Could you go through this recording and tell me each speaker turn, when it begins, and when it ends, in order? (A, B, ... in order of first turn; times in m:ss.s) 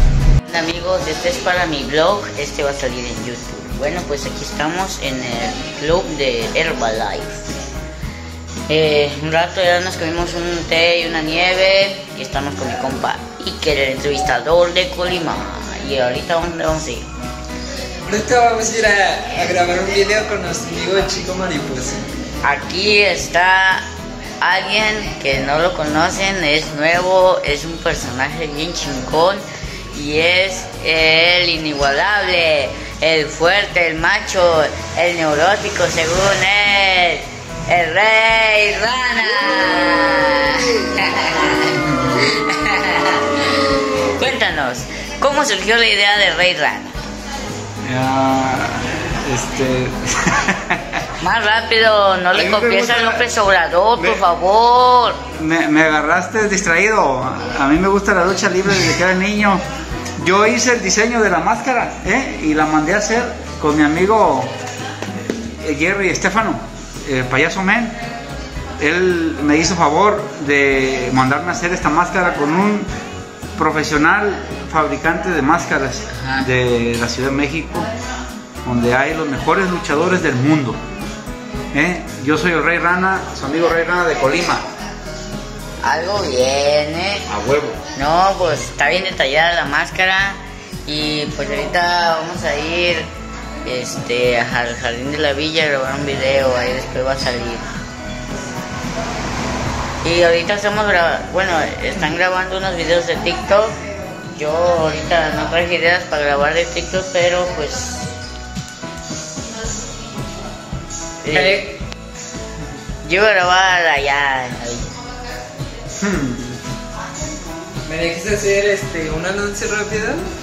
0:00.5-0:07.4 A
0:08.7-0:17.1 A
0:18.1-0:22.1 B
0:22.4-0:23.9 A
0:24.4-0:47.0 A
0:47.9-0:50.3 C
0:51.2-0:55.2 A
0:52.4-0:53.1 C
0:55.4-0:59.6 C
1:00.2-1:04.5 C
1:05.6-1:08.0 C
1:08.8-1:12.9 C
1:13.6-1:17.9 C
1:18.7-1:20.8 C
1:21.8-1:24.6 C
1:25.8-1:27.3 A
1:27.3-1:27.8 C
1:28.0-1:33.1 A
1:33.6-1:37.7 A
1:40.0-1:43.8 A
1:44.3-1:48.1 A
1:51.2-1:51.6 A
1:51.3-1:51.6 B
1:53.0-1:54.9 A
1:56.0-1:56.5 C
1:57.9-2:00.3 B